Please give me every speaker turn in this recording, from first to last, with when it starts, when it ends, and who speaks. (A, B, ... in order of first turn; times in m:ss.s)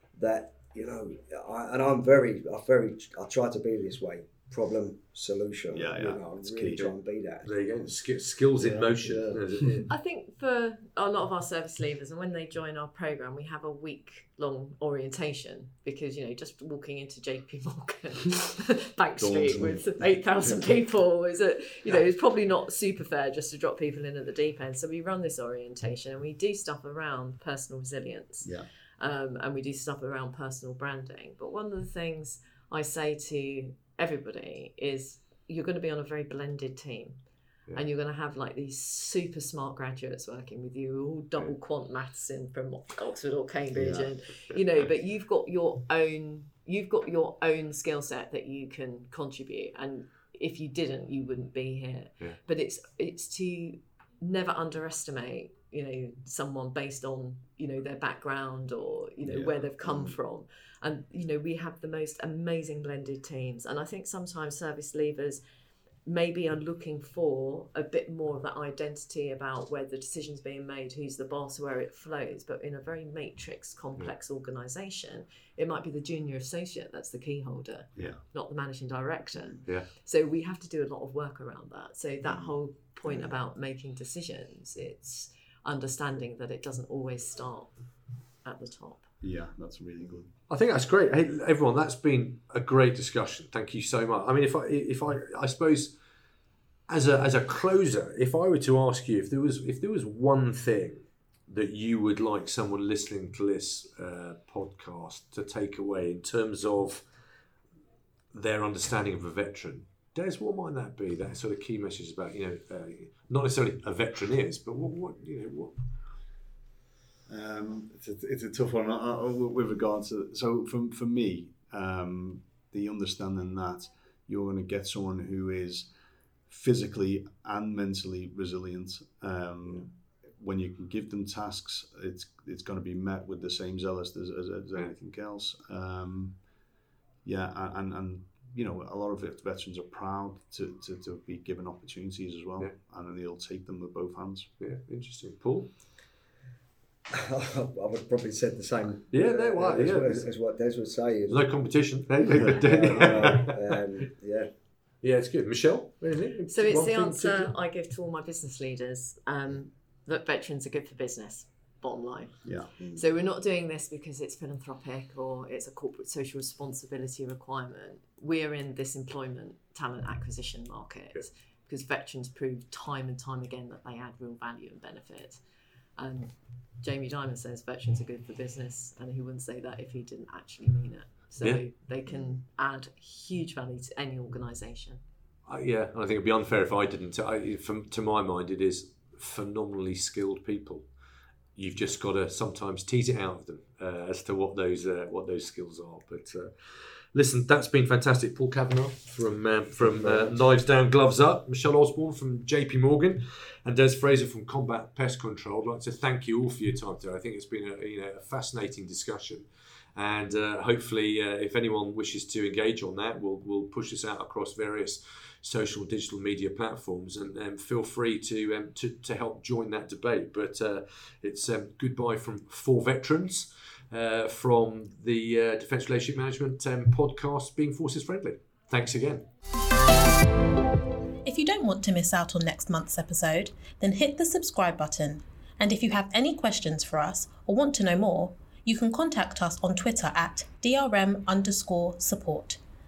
0:00.2-0:07.9 A
0:05.7-0:06.9 B
0:07.4-0:09.9 C
0:08.6-0:09.8 B
0:09.9-0:37.2 D
0:19.2-0:19.8 B
0:28.4-0:28.7 B
0:37.7-1:05.4 D
0:43.8-0:44.1 B
1:06.0-1:27.8 D
1:28.4-1:29.0 D
1:29.2-1:30.3 B
1:30.5-1:36.0 C
1:36.9-1:47.0 C
1:48.3-1:55.8 C
1:57.3-2:05.9 B
2:06.5-2:16.4 B
2:17.2-2:24.5 B
2:24.6-2:25.7 C
2:27.1-2:31.5 A
2:29.1-2:30.3 C
2:31.3-2:33.8 C
2:32.3-2:34.5 A
2:32.4-2:33.3 B
2:35.0-2:37.5 C
2:36.5-2:55.4 D
2:42.4-2:42.7 B
2:56.0-3:05.0 D
3:05.4-3:10.8 C
3:11.6-3:49.2 C
3:51.2-4:02.6 E